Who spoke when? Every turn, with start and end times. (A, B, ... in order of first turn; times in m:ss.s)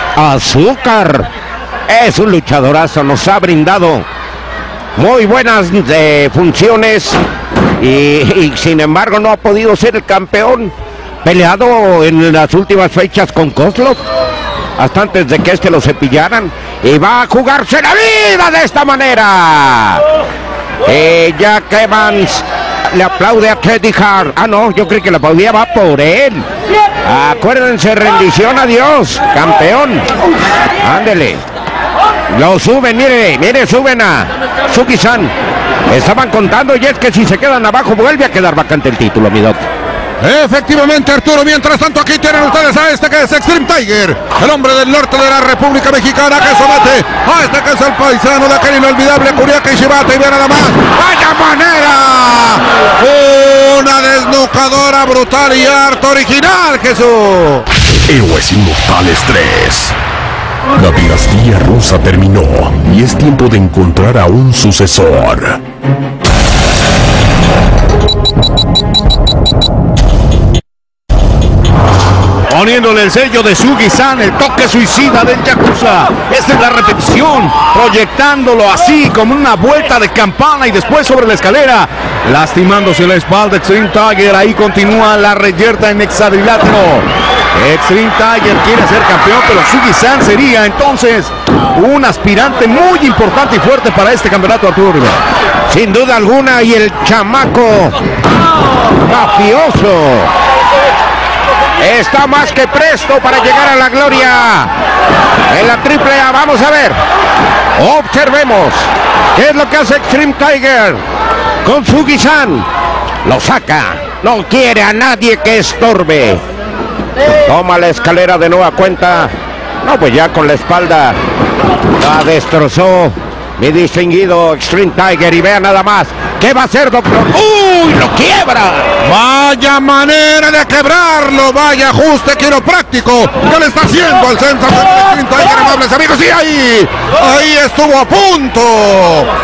0:00.2-0:01.3 A
0:01.9-0:04.0 A
0:05.0-0:07.2 A
0:07.8-0:10.7 A
0:11.2-0:14.0 A
0:14.8-0:20.0 A
0:20.8-0:26.4 A
0:27.0-0:30.1 A
0:30.8-0:31.4 A
0:32.3-0:35.3 A
0:35.9-0:39.6 A
0:40.2-0:57.6 B
0:58.1-1:00.0 C
1:00.7-1:05.6 C
1:12.5-1:35.2 D
1:35.7-1:37.9 A
1:39.0-1:40.3 A
1:41.8-1:44.7 A
1:45.5-1:47.0 A
1:47.8-1:51.0 A
1:51.6-1:52.6 A
1:53.2-1:56.4 A
1:57.4-1:59.3 A
1:59.8-2:01.2 A
2:02.0-2:08.9 A
2:09.0-2:19.3 B